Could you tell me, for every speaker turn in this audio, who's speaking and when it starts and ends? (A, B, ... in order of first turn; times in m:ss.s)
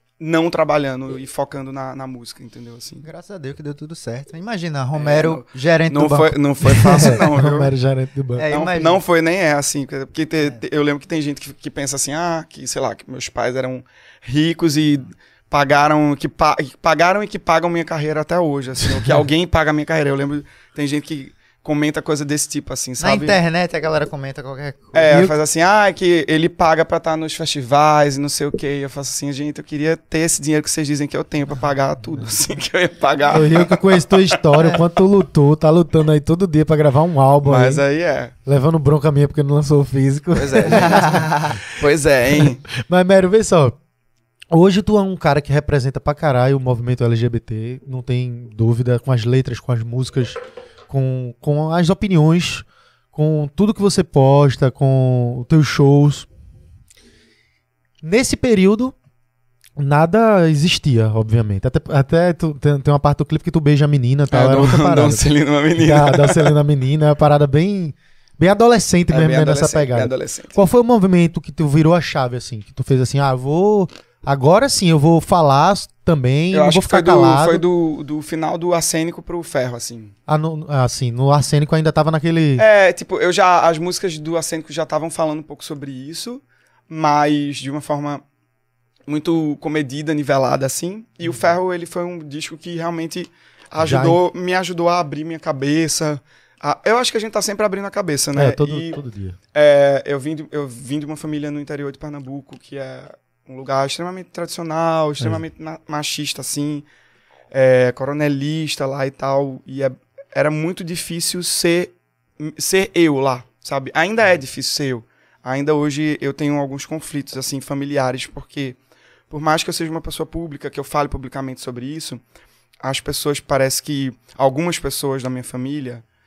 0:00.2-0:03.0 A
0:03.0-0:07.2 B
0:05.0-0:07.7 A
0:07.0-0:08.5 C
0:08.4-0:09.0 B
0:08.5-0:23.4 A
0:23.0-0:25.3 B
0:24.9-0:34.5 A
0:33.3-0:37.8 C
0:37.4-0:38.3 A
0:38.5-0:41.7 C
0:40.3-0:42.6 A
0:40.8-0:41.6 B
0:42.4-0:43.8 C
0:44.5-0:56.3 C
0:58.0-0:58.9 C
0:59.8-1:05.2 C
1:04.3-1:06.6 A
1:05.8-1:17.6 C
1:09.1-1:10.6 A
1:16.5-1:20.1 A
1:20.3-1:22.6 C
1:22.6-1:28.2 A
1:29.1-1:39.0 A
1:33.8-1:34.2 C
1:38.4-1:39.4 C
1:39.5-1:46.9 A
1:47.5-1:58.8 A
1:59.3-2:02.2 A
2:02.8-2:06.0 A